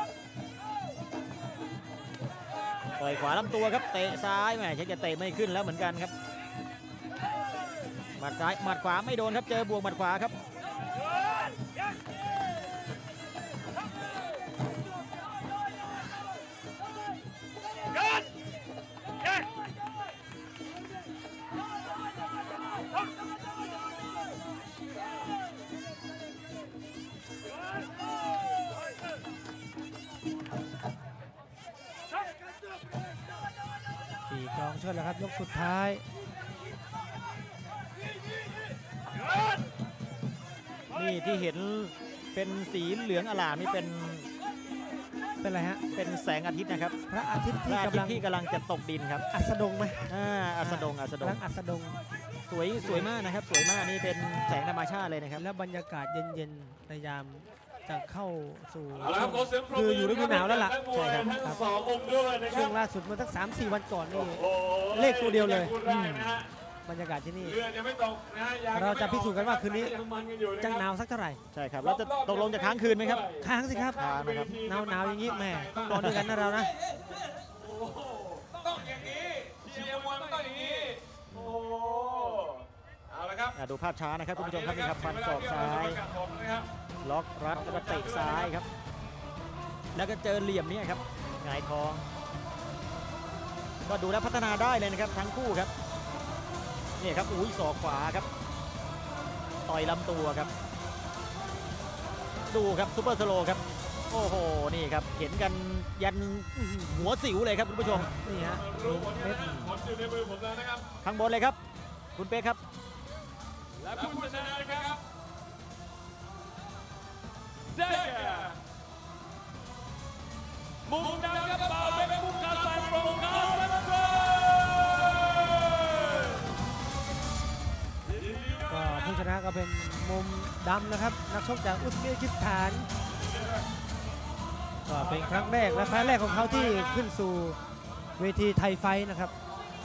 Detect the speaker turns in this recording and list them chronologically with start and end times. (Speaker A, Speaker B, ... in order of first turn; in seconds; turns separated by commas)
Speaker A: 3.0-6.1, Speaker A: 8.2-10.3, Speaker B: 34.3-36.0, Speaker A: 40.9-44.3, Speaker B: 45.4-45.8, Speaker A: 45.9-47.0, Speaker B: 47.1-48.3, Speaker A: 47.7-49.2, Speaker B: 49.3-52.0, Speaker A: 50.1-51.4, Speaker A: 52.5-55.4, Speaker B: 52.8-53.1, Speaker B: 55.4-60.8, Speaker C: 59.1-62.7, Speaker A: 60.9-61.3, Speaker B: 61.4-61.7, Speaker B: 62.5-67.7, Speaker C: 64.4-66.5, Speaker A: 65.8-66.3, Speaker C: 67.5-70.8, Speaker B: 68.7-70.0, Speaker B: 70.6-71.4, Speaker A: 71.5-73.3, Speaker C: 71.8-76.0, Speaker B: 73.4-76.7, Speaker A: 74.0-74.6, Speaker A: 75.8-76.3, Speaker C: 77.5-83.5, Speaker A: 81.3-81.6, Speaker A: 83.5-86.0, Speaker C: 84.4-86.7, Speaker A: 87.0-88.7, Speaker C: 87.7-88.5, Speaker A: 89.9-92.0, Speaker A: 93.9-95.7, Speaker A: 97.0-98.3, Speaker A: 99.7-100.5, Speaker A: 102.5-108.2, Speaker B: 106.5-107.1, Speaker B: 107.8-109.7, Speaker C: 108.5-110.9, Speaker A: 109.4-109.8, Speaker A: 111.0-111.6, Speaker A: 112.2-112.6, Speaker C: 113.8-115.0, Speaker C: 117.8-118.6, Speaker C: 120.9-126.4, Speaker C: 128.1-129.0, Speaker B: 128.7-132.9, Speaker B: 134.9-137.6, Speaker C: 135.1-136.9, Speaker B: 138.2-139.3